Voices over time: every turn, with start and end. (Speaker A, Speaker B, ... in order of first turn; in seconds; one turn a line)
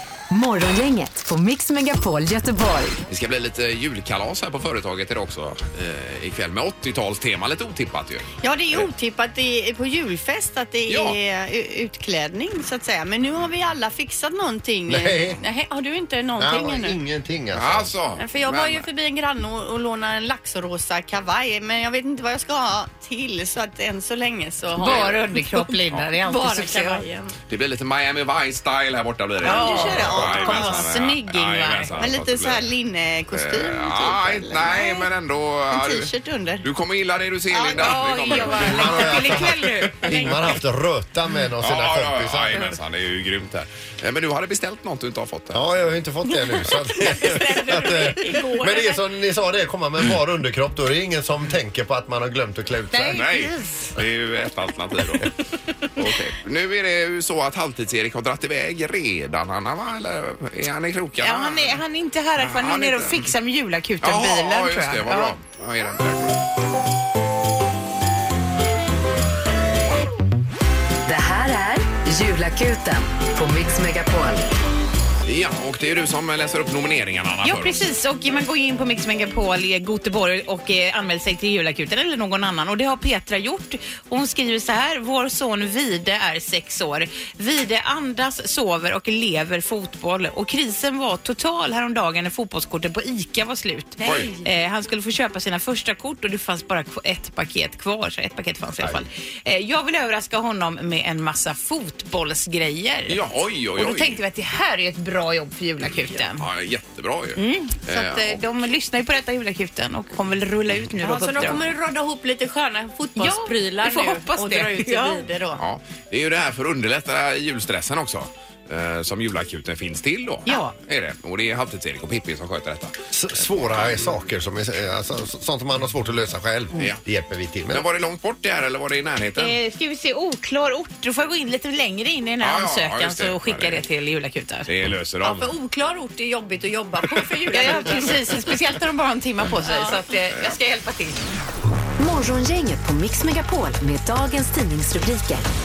Speaker A: 0.3-3.0
Speaker B: 3.1-8.9
Speaker C: 8.4-17.0
Speaker B: 10.9-11.2
Speaker D: 14.9-15.4
Speaker D: 16.4-17.9
Speaker B: 17.5-18.9
Speaker C: 18.1-25.7
Speaker E: 24.8-27.0
Speaker B: 24.8-25.2
Speaker C: 26.2-27.3
Speaker B: 27.5-32.7
Speaker C: 29.4-30.9
Speaker E: 29.4-32.1
Speaker C: 32.0-35.1
Speaker B: 33.3-36.1
Speaker C: 35.7-36.6
Speaker B: 36.6-39.5
Speaker C: 37.5-39.4
Speaker E: 37.7-40.5
Speaker D: 38.6-42.7
Speaker B: 41.6-45.7
Speaker D: 45.5-53.2
Speaker C: 47.0-48.5
Speaker E: 47.1-48.9
Speaker E: 52.9-53.4
Speaker B: 53.1-55.3
Speaker C: 53.1-53.4
Speaker B: 56.0-61.8
Speaker E: 61.2-65.4
Speaker B: 62.4-63.3
Speaker B: 64.0-66.4
Speaker A: 71.0-74.5
Speaker B: 75.2-77.9
Speaker E: 77.4-103.2
Speaker C: 94.0-94.4
Speaker B: 94.0-94.3
Speaker B: 103.1-104.2
Speaker E: 103.8-106.5
Speaker B: 105.8-108.4
Speaker E: 107.4-111.6
Speaker C: 111.0-115.6
Speaker E: 113.1-115.3
Speaker B: 115.6-122.9
Speaker E: 120.5-120.8
Speaker D: 123.1-127.8
Speaker B: 127.7-129.6
Speaker E: 129.4-134.7
Speaker B: 132.4-133.8
Speaker B: 134.7-135.5
Speaker C: 135.2-140.4
Speaker E: 137.2-141.2
Speaker A: 142.0-145.4